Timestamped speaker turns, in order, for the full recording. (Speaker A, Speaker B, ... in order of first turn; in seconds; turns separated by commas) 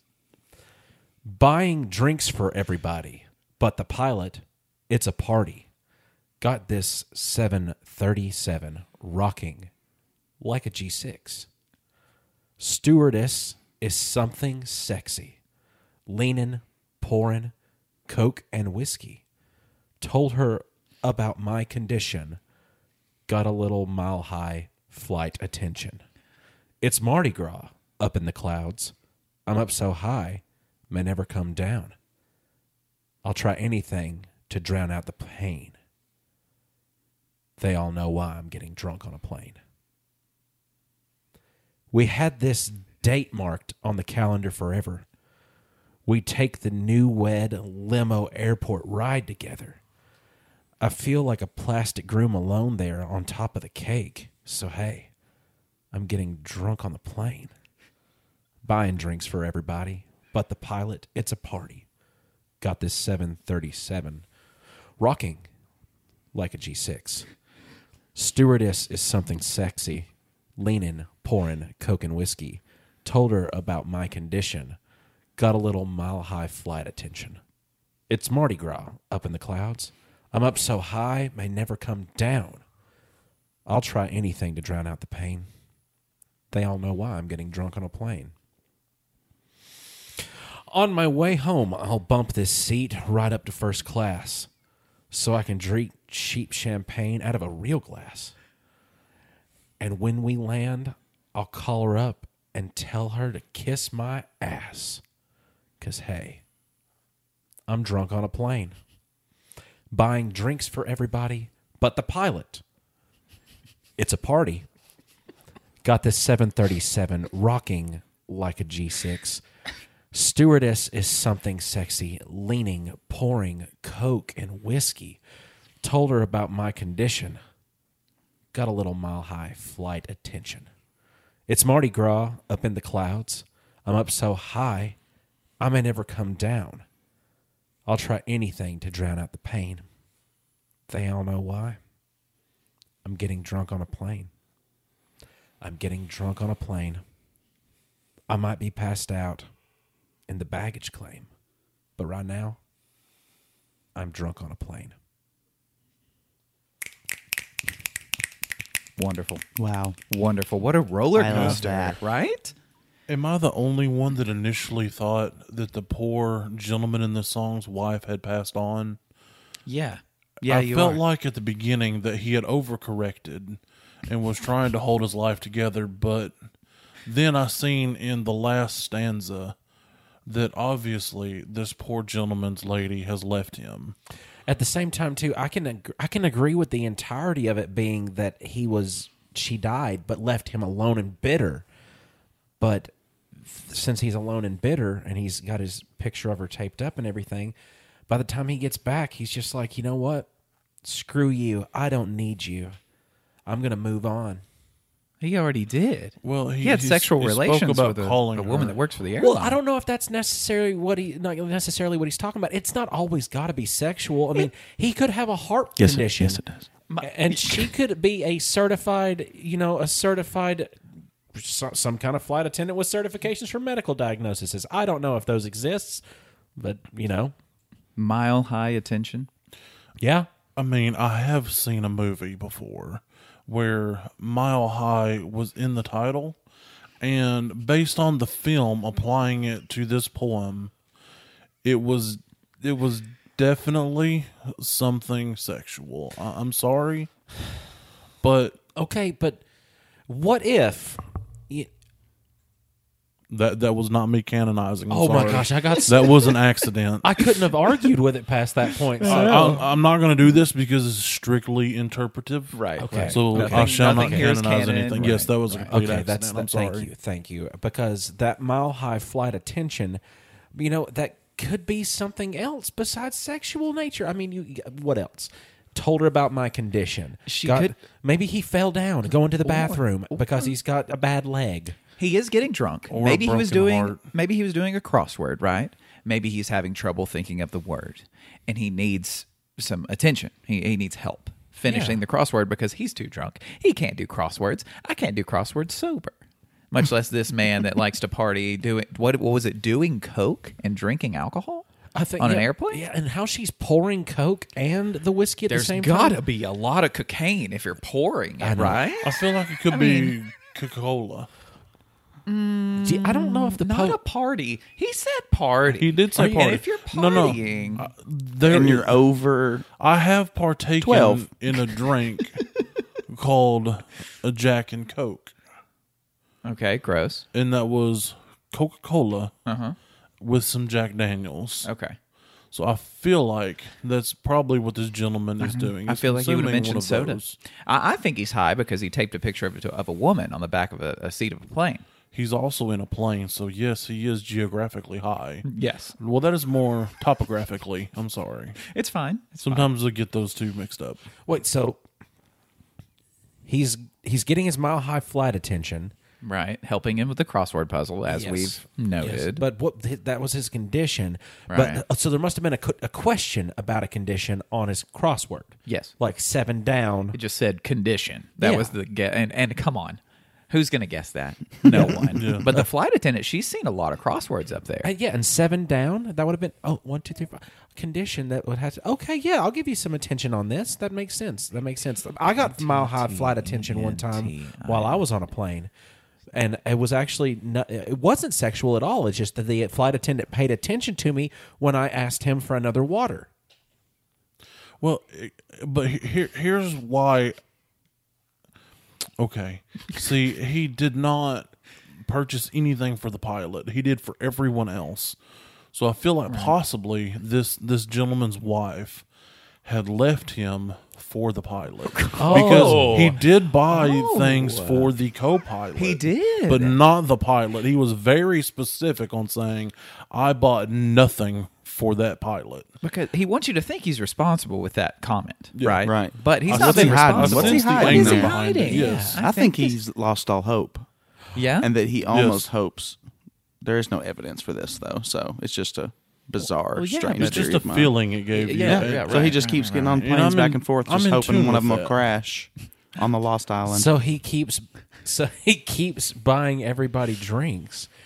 Speaker A: 1.2-5.7, Speaker A: 6.4-9.7, Speaker A: 10.4-11.5, Speaker A: 12.6-15.4, Speaker A: 16.1-17.5, Speaker A: 18.1-19.2, Speaker A: 20.0-22.4, Speaker A: 23.3-26.0, Speaker A: 26.8-28.9, Speaker A: 29.5-31.9, Speaker A: 33.2-35.8, Speaker A: 37.6-39.6, Speaker A: 41.9-45.0, Speaker A: 46.0-49.8, Speaker A: 50.8-55.1, Speaker A: 55.9-57.5, Speaker A: 58.6-61.9, Speaker A: 62.6-64.3, Speaker A: 65.0-65.5, Speaker A: 66.3-67.3, Speaker A: 68.1-74.8, Speaker A: 75.4-77.4, Speaker A: 78.1-82.6, Speaker A: 83.7-85.5, Speaker A: 86.5-88.3, Speaker A: 90.7-94.5, Speaker A: 95.1-98.3, Speaker A: 99.8-105.0, Speaker A: 105.8-106.4, Speaker A: 107.7-108.7, Speaker A: 109.9-112.6, Speaker A: 114.0-114.7, Speaker A: 115.8-119.4, Speaker A: 120.1-125.2, Speaker A: 125.8-127.4, Speaker A: 128.5-130.7, Speaker A: 131.5-135.0, Speaker A: 135.6-136.8, Speaker A: 137.9-139.8, Speaker A: 140.9-141.8, Speaker A: 143.0-144.3, Speaker A: 145.6-147.0, Speaker A: 148.3-149.4, Speaker A: 150.3-151.3, Speaker A: 152.0-152.6, Speaker A: 153.9-154.9, Speaker B: 159.0-159.4, Speaker C: 159.6-160.0, Speaker B: 160.1-162.5, Speaker C: 161.1-162.0, Speaker D: 161.3-161.6, Speaker D: 163.1-169.0, Speaker B: 169.7-171.0, Speaker D: 170.4-176.3, Speaker D: 177.1-179.6, Speaker D: 180.3-183.9, Speaker A: 184.5-191.7, Speaker A: 192.6-197.6, Speaker A: 198.1-200.3, Speaker A: 200.8-202.8, Speaker A: 203.4-204.4, Speaker B: 205.2-209.6, Speaker D: 206.2-208.8, Speaker A: 209.2-216.4, Speaker C: 215.8-216.6, Speaker B: 216.9-217.7, Speaker A: 217.0-220.8, Speaker A: 221.3-226.0, Speaker A: 226.6-227.3, Speaker B: 228.0-229.3, Speaker A: 230.0-230.3, Speaker D: 230.6-236.4, Speaker D: 237.0-240.7, Speaker D: 241.6-247.1, Speaker D: 248.2-248.6, Speaker A: 248.8-249.4, Speaker A: 250.1-251.7, Speaker D: 253.3-257.1, Speaker A: 254.9-256.4, Speaker A: 257.0-259.6, Speaker D: 259.0-266.9, Speaker B: 259.0-259.6, Speaker B: 262.5-265.7, Speaker A: 262.8-264.3, Speaker A: 265.6-270.0, Speaker A: 270.5-281.8, Speaker B: 277.3-277.7, Speaker B: 279.4-280.4, Speaker B: 282.0-296.1, Speaker D: 282.9-284.0, Speaker A: 291.7-292.0, Speaker B: 296.7-301.7, Speaker A: 301.9-306.2, Speaker B: 302.2-302.8, Speaker B: 305.5-310.1, Speaker A: 308.4-308.8, Speaker D: 309.0-311.3, Speaker B: 312.3-317.9, Speaker A: 312.8-314.0, Speaker D: 315.7-319.0, Speaker C: 318.5-319.6, Speaker D: 319.8-322.4, Speaker C: 320.8-321.3, Speaker D: 323.1-325.3, Speaker B: 326.4-327.2, Speaker D: 327.3-329.3, Speaker B: 329.4-329.8, Speaker D: 330.2-331.7, Speaker B: 331.6-331.9, Speaker D: 332.5-337.4, Speaker B: 335.4-341.8, Speaker D: 342.1-345.4, Speaker B: 345.4-345.9, Speaker D: 346.0-348.6, Speaker B: 348.6-349.7, Speaker D: 349.4-351.0, Speaker A: 351.3-351.8, Speaker A: 353.4-355.9, Speaker B: 356.2-359.4, Speaker A: 358.1-367.2, Speaker B: 361.5-361.8, Speaker B: 365.7-365.9, Speaker B: 367.1-374.9, Speaker A: 368.4-368.7, Speaker A: 371.7-372.1, Speaker D: 372.0-372.6, Speaker A: 374.8-385.7, Speaker B: 382.4-385.0, Speaker A: 386.3-393.3, Speaker D: 394.8-397.4, Speaker D: 399.2-401.5, Speaker D: 402.1-405.1, Speaker D: 405.7-409.0, Speaker B: 406.3-406.5, Speaker D: 409.6-422.7, Speaker B: 411.9-414.9, Speaker A: 412.2-413.2, Speaker B: 415.8-416.8, Speaker B: 422.8-429.8, Speaker D: 425.6-429.2, Speaker C: 425.8-428.4, Speaker A: 428.7-429.2, Speaker C: 429.2-430.9, Speaker B: 431.3-431.7, Speaker C: 431.6-433.0, Speaker D: 432.1-432.5, Speaker C: 433.6-437.9, Speaker B: 436.7-437.6, Speaker D: 437.1-441.9, Speaker B: 438.3-440.0, Speaker C: 438.6-443.9, Speaker A: 443.6-447.9